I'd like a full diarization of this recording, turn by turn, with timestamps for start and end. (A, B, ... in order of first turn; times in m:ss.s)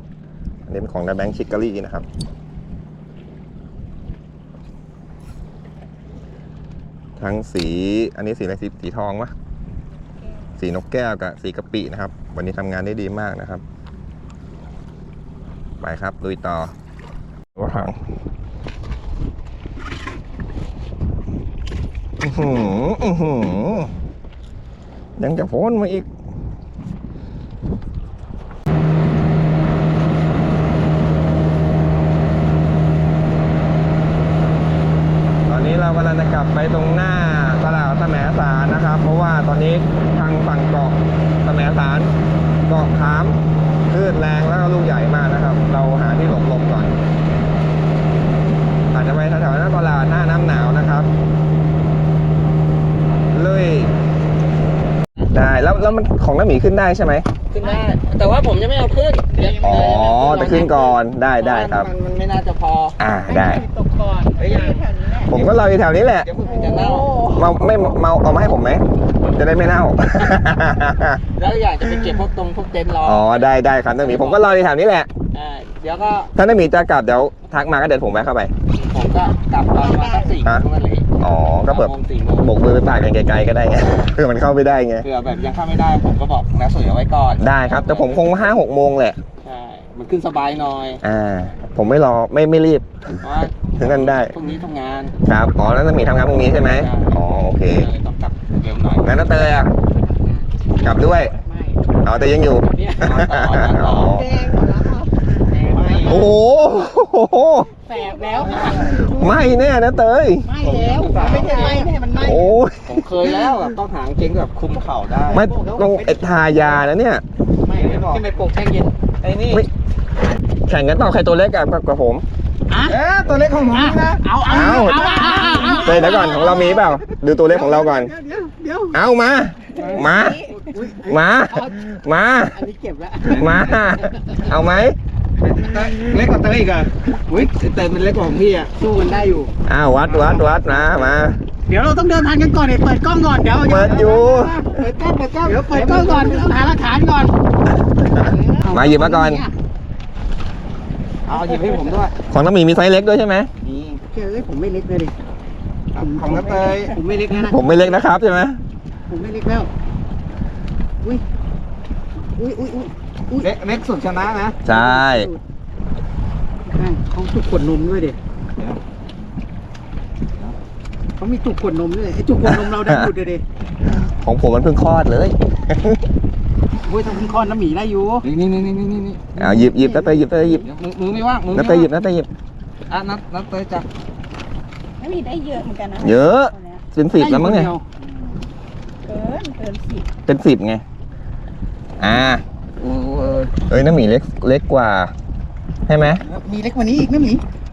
0:00.7-0:02.1 A
0:07.2-0:09.3 A
0:10.0-0:10.6 B
0:10.6-0:13.6 A
0:15.8-0:16.7 A
0:17.6-0:18.0 A
0:22.2-0:23.9 A
0:25.2-0:26.1 A
0:35.5-0:42.1 A
0:42.7-0:47.0 A
0:48.9-0:51.1 A
0:53.3-0:54.0 A
0:55.3-0:57.3 A
0:57.5-1:03.0 C
0:59.3-1:00.4 D
0:59.6-1:01.9 A
1:03.0-1:03.6 A
1:03.3-1:04.4 D
1:04.3-1:05.4 B
1:04.4-1:05.6 C
1:05.3-1:06.3 A
1:06.2-1:07.1 C
1:06.4-1:07.6 B
1:07.4-1:11.2 A
1:11.4-1:14.6 C
1:13.0-1:15.1 A
1:15.3-1:16.3 C
1:16.4-1:18.5 A
1:18.7-1:22.6 C
1:19.3-1:20.4 B
1:21.2-1:25.1 A
1:25.0-1:28.5 C
1:27.4-1:29.2 A
1:29.4-1:31.0 C
1:31.0-1:33.2 A
1:33.2-1:35.2 C
1:33.8-1:34.3 A
1:35.2-1:37.9 A
1:36.3-1:39.2 C
1:39.0-1:39.7 A
1:40.0-1:40.5 D
1:40.8-1:41.3 A
1:41.2-1:41.9 D
1:42.0-1:44.3 A
1:42.6-1:44.2 C
1:43.9-1:46.3 D
1:44.2-1:44.9 B
1:45.6-1:46.3 C
1:46.0-1:47.7 A
1:47.9-1:49.6 D
1:47.9-1:48.9 B
1:48.4-1:49.0 C
1:49.0-1:50.5 A
1:50.4-1:52.6 D
1:50.6-1:51.9 C
1:51.0-1:51.9 B
1:52.2-1:53.2 A
1:52.8-1:55.5 C
1:55.2-1:56.9 D
1:55.3-1:57.2 A
1:57.7-1:59.6 C
1:57.7-1:58.3 D
2:00.7-2:02.2 A
2:02.7-2:09.0 D
2:02.9-2:04.2 C
2:04.4-2:05.2 A
2:04.7-2:06.9 B
2:05.1-2:05.8 C
2:05.8-2:08.1 A
2:08.9-2:10.4 A
2:09.8-2:10.7 B
2:09.8-2:12.0 D
2:11.1-2:12.6 A
2:12.5-2:14.6 D
2:13.3-2:13.7 C
2:13.3-2:15.0 A
2:15.4-2:18.7 C
2:15.6-2:16.1 D
2:18.8-2:19.5 D
2:19.7-2:21.4 A
2:20.1-2:21.3 C
2:21.7-2:24.8 D
2:23.6-2:24.7 A
2:24.7-2:26.6 C
2:25.4-2:27.4 D
2:28.0-2:29.5 D
2:28.2-2:29.4 A
2:31.3-2:32.1 C
2:31.4-2:31.9 D
2:32.3-2:33.5 A
2:33.6-2:34.0 C
2:34.1-2:35.1 D
2:35.9-2:37.0 C
2:36.0-2:38.0 D
2:37.3-2:38.6 A
2:39.1-2:39.7 D
2:42.4-2:43.5 D
2:43.4-2:44.6 C
2:44.6-2:45.3 A
2:44.6-2:45.4 D
2:46.6-2:48.2 D
2:51.2-2:53.4 D
2:52.5-2:53.1 A
2:54.1-2:56.0 A
2:56.8-2:58.3 D
2:58.2-2:59.3 C
2:59.4-3:00.7 A
2:59.4-3:00.2 D
3:00.7-3:01.9 C
3:01.5-3:02.3 A
3:02.9-3:03.9 C
3:05.0-3:06.8 B
3:06.0-3:07.7 A
3:07.2-3:07.8 D
3:08.0-3:08.5 B
3:09.0-3:10.1 B
3:10.3-3:10.8 A
3:12.0-3:12.4 A
3:12.8-3:13.6 C
3:13.7-3:15.1 A
3:15.9-3:16.2 A
3:16.2-3:17.4 D